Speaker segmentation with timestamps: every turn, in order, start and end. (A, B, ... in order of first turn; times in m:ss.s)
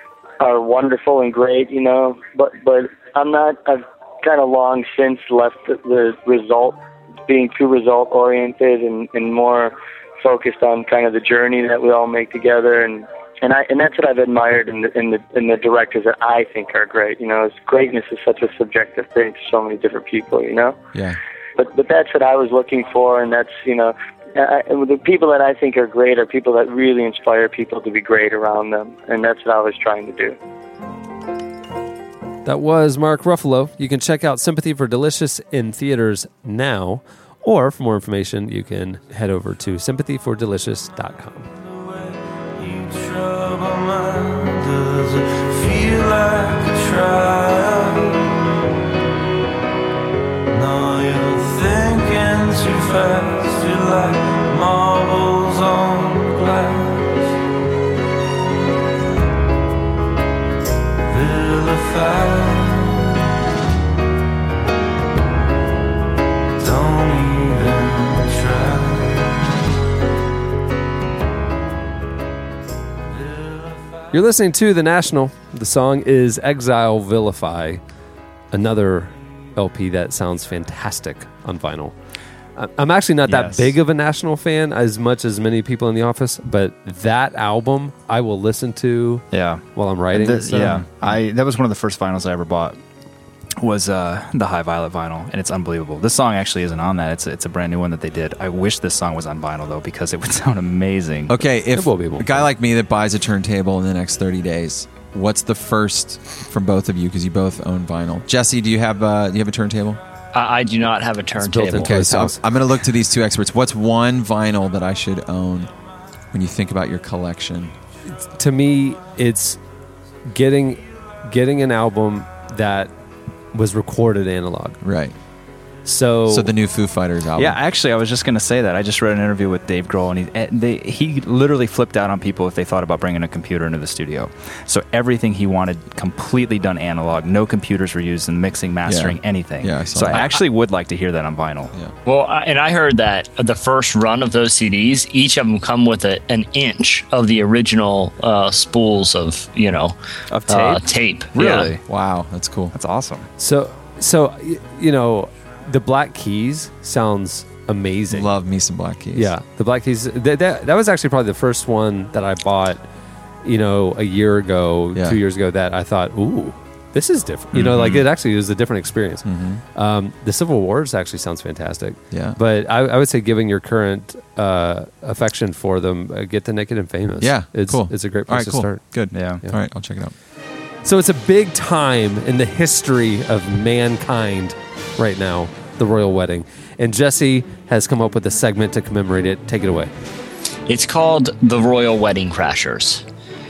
0:00.4-0:20.8 A
0:21.6-0:30.4 A
0:32.4-0:41.5 B
0:42.6-0:48.2 C
0:50.5-0:57.1 C
1:01.1-1:03.0 C
1:06.6-1:09.3 C
1:14.1-1:17.8 B
1:18.5-1:22.0 B
1:22.6-1:30.9 B
1:23.2-1:23.7 D
1:29.3-1:32.8 D
1:33.6-1:41.4 D
1:41.3-1:50.0 E
1:41.7-1:42.5 B
1:50.3-1:51.9 F
1:51.5-1:52.4 B
1:51.6-1:55.7 E
1:56.3-1:57.7 E
1:58.1-1:59.6 B
2:00.3-2:02.9 B
2:03.5-2:04.8 B
2:04.8-2:05.2 E
2:05.8-2:06.5 B
2:06.3-2:07.6 E
2:07.4-2:21.7 D
2:18.8-2:20.3 E
2:22.0-2:30.0 F
2:30.3-2:30.8 D
2:30.5-2:31.7 F
2:31.3-2:31.8 D
2:31.8-2:32.7 E
2:32.7-2:33.3 D
2:33.4-2:38.3 B
2:38.1-2:39.3 E
2:39.1-2:42.8 B
2:43.4-2:58.8 B
2:47.5-2:48.1 E
2:49.2-2:49.6 E
2:52.1-2:52.4 E
2:57.2-3:00.1 E
2:59.1-2:59.4 D
3:00.8-3:09.9 B
3:10.7-3:13.0 F